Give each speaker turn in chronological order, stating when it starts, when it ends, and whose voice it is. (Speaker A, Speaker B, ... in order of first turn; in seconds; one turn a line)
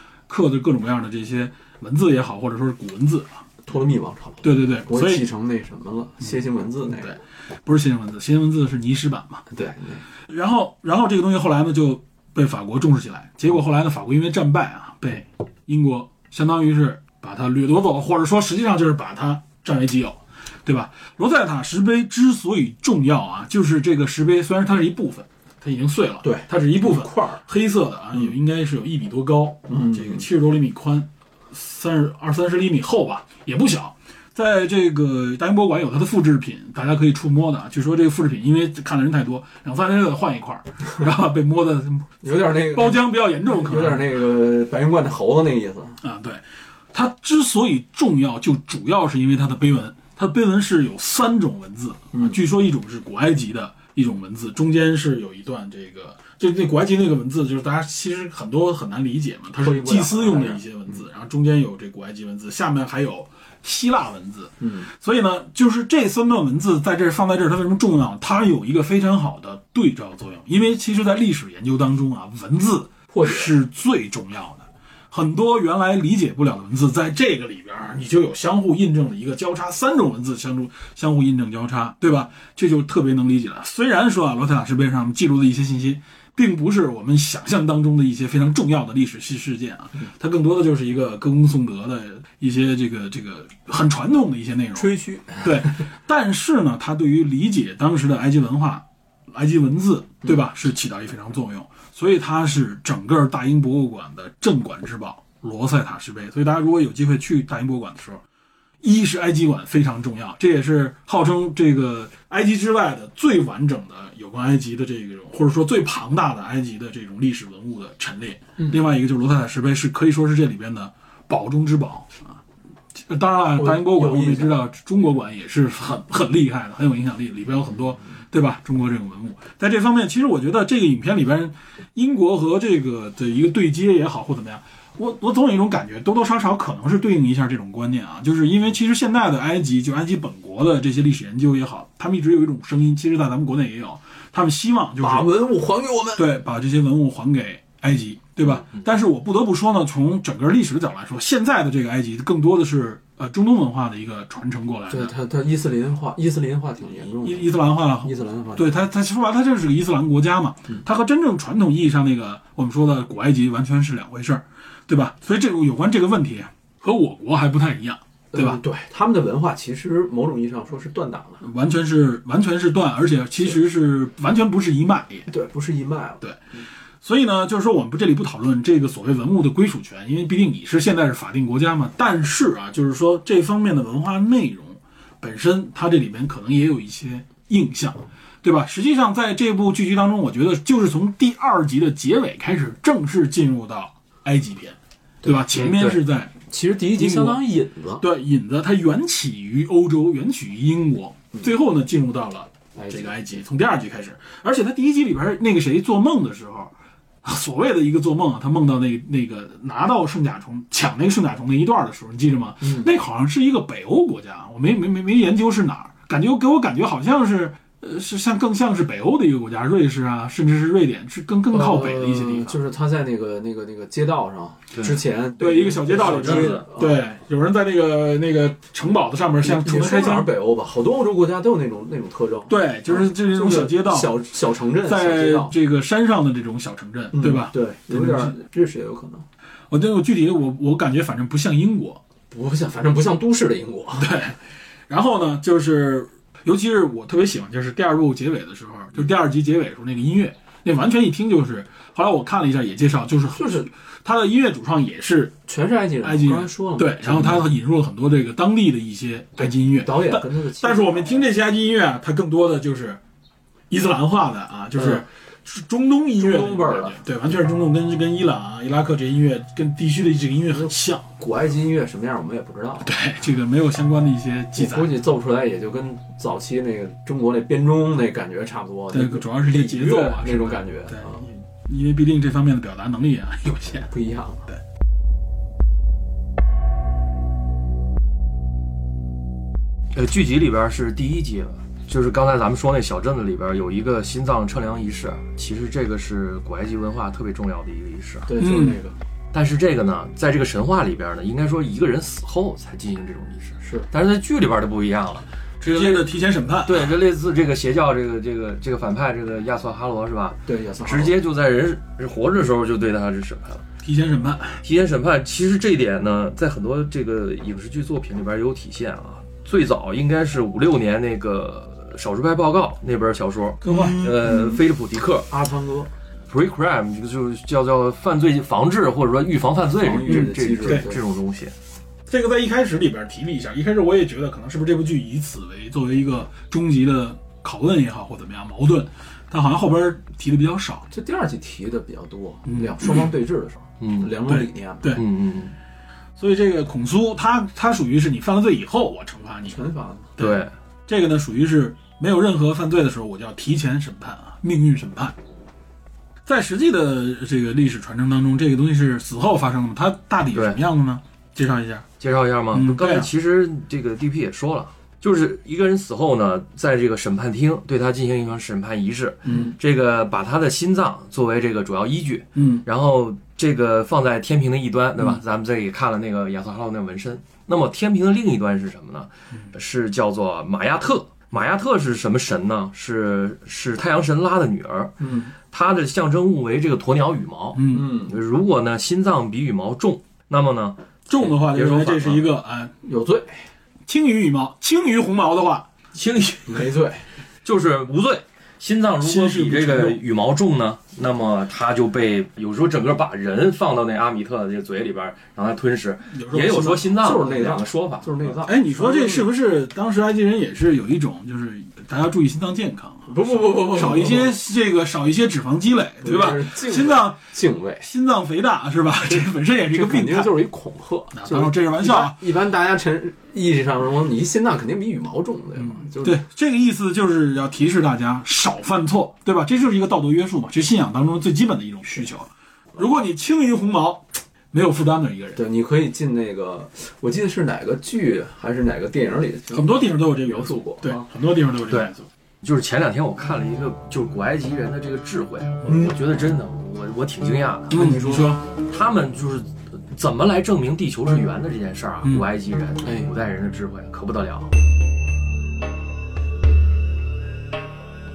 Speaker A: 0.3-3.4
Speaker B: 3.7-7.2
Speaker A: 4.4-5.3
Speaker A: 7.0-9.4
Speaker B: 9.5-10.0
Speaker A: 10.3-44.1
Speaker B: 26.2-27.4
Speaker B: 29.7-30.2
Speaker B: 42.2-46.0
Speaker A: 46.0-108.2
Speaker B: 52.1-52.4
Speaker B: 59.6-60.6
Speaker B: 64.6-64.9
Speaker B: 73.1-73.5
Speaker B: 94.8-95.7
Speaker A: 108.8-122.4
Speaker A: 123.0-145.3
Speaker B: 123.6-124.6
Speaker B: 145.0-146.3
Speaker A: 146.2-155.1
Speaker B: 154.9-158.7
Speaker A: 157.2-168.6
Speaker B: 168.3-171.4
Speaker A: 171.4-175.3
Speaker B: 175.3-176.2
Speaker A: 177.0-196.3
Speaker B: 195.2-195.7
Speaker C: 195.6-196.0
Speaker B: 196.5-198.1
Speaker A: 196.9-197.4
Speaker A: 198.0-222.6
Speaker B: 202.8-203.2
Speaker B: 212.6-212.9
Speaker B: 221.5-227.0
Speaker A: 225.4-230.3
Speaker C: 226.0-226.7
Speaker B: 229.4-235.5
Speaker A: 232.5-234.3
Speaker A: 234.8-238.3
Speaker B: 237.1-239.2
Speaker A: 239.7-242.0
Speaker B: 242.3-244.1
Speaker A: 244.0-244.4
Speaker A: 244.9-255.3
Speaker B: 253.3-253.7
Speaker B: 255.5-257.5
Speaker A: 256.0-263.0
Speaker B: 259.7-261.2
Speaker A: 263.7-271.1
Speaker B: 264.8-265.0
Speaker B: 266.2-267.0
Speaker B: 270.5-273.0
Speaker A: 272.9-275.0
Speaker B: 274.6-281.3
Speaker A: 278.9-283.9
Speaker B: 283.8-284.5
Speaker C: 289.9-298.3
Speaker B: 298.3-299.0
Speaker A: 298.4-298.8
Speaker C: 299.3-306.1
Speaker B: 303.6-303.9
Speaker A: 305.6-307.0
Speaker C: 306.6-313.6
Speaker B: 310.5-311.2
Speaker A: 313.8-314.6
Speaker C: 314.6-325.3
Speaker A: 323.6-324.3
Speaker B: 323.7-324.6
Speaker B: 325.3-325.9
Speaker C: 326.3-331.5
Speaker B: 329.8-331.0
Speaker A: 330.1-330.9
Speaker A: 332.1-340.9
Speaker B: 340.9-345.0
Speaker A: 342.5-343.1
Speaker C: 343.8-344.1
Speaker A: 344.3-345.0
Speaker C: 344.9-345.6
Speaker A: 346.2-349.6
Speaker B: 349.5-350.1
Speaker C: 350.2-350.5
Speaker A: 350.2-355.1
Speaker A: 356.3-361.9
Speaker C: 360.3-360.6
Speaker C: 362.0-392.3
Speaker A: 362.5-363.1
Speaker A: 372.4-372.6
Speaker B: 385.0-385.3
Speaker A: 387.6-387.9
Speaker B: 387.7-388.2
Speaker A: 391.1-392.7
Speaker B: 392.8-393.5
Speaker A: 393.9-395.7
Speaker C: 395.9-396.7
Speaker B: 396.5-397.1
Speaker C: 397.4-408.3
Speaker A: 399.0-400.0
Speaker A: 406.1-407.0
Speaker B: 406.9-409.3
Speaker A: 408.5-417.2
Speaker B: 413.1-414.4
Speaker B: 416.0-417.9
Speaker A: 417.8-420.4
Speaker B: 419.1-426.2
Speaker A: 421.1-422.2
Speaker A: 426.0-435.4
Speaker B: 435.4-441.1
Speaker A: 439.5-442.1
Speaker C: 442.4-447.9
Speaker A: 447.7-448.4
Speaker B: 447.7-448.4
Speaker C: 448.5-454.5
Speaker B: 452.8-453.1